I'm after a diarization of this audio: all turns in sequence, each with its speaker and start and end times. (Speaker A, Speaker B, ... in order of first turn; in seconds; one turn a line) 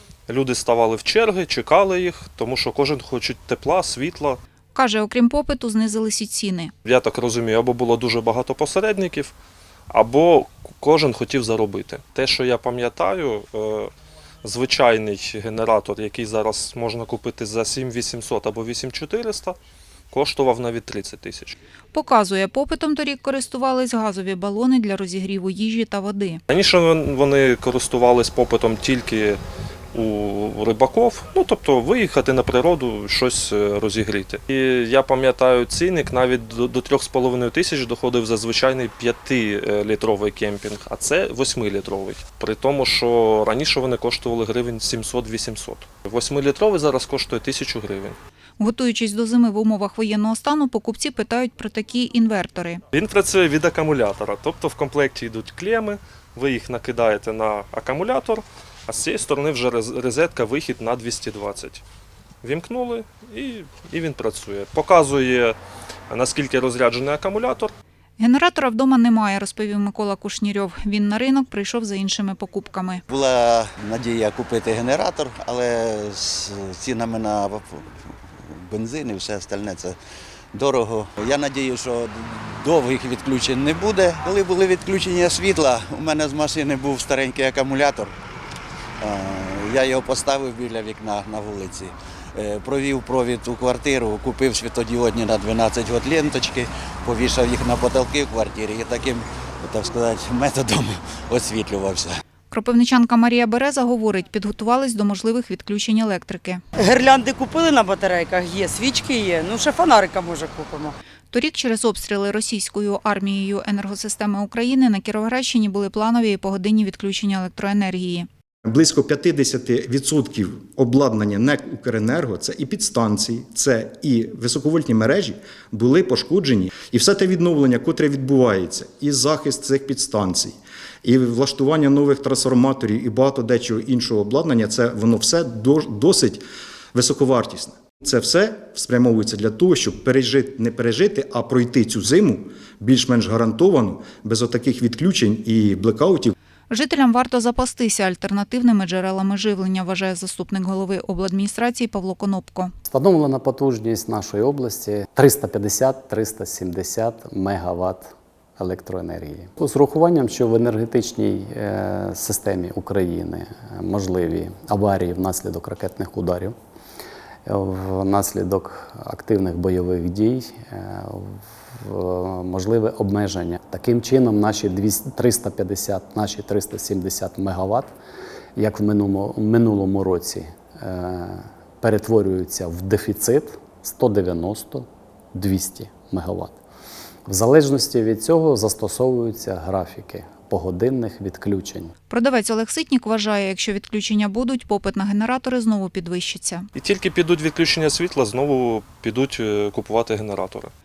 Speaker A: 0.3-4.4
Speaker B: 4.7-6.7
Speaker A: 6.8-9.3
Speaker A: 9.9-13.9
Speaker A: 14.4-19.6
Speaker A: 20.1-21.6
Speaker B: 21.9-26.4
Speaker A: 26.5-29.4
Speaker A: 29.9-48.2
Speaker B: 48.6-52.8
Speaker A: 52.9-61.8
Speaker A: 62.4-65.6
Speaker A: 66.1-67.7
Speaker B: 68.2-73.0
Speaker C: 73.1-80.0
Speaker C: 80.5-88.1
Speaker C: 89.0-102.2
Speaker B: 102.5-106.6
Speaker D: 106.8-111.0
Speaker B: 111.3-118.3
Speaker E: 118.7-136.4
Speaker E: 136.9-146.3
Speaker B: 146.7-152.7
Speaker F: 152.8-166.6
Speaker F: 167.5-177.9
Speaker F: 178.6-186.6
Speaker F: 187.3-191.9
Speaker B: 192.1-196.7
Speaker A: 196.8-200.7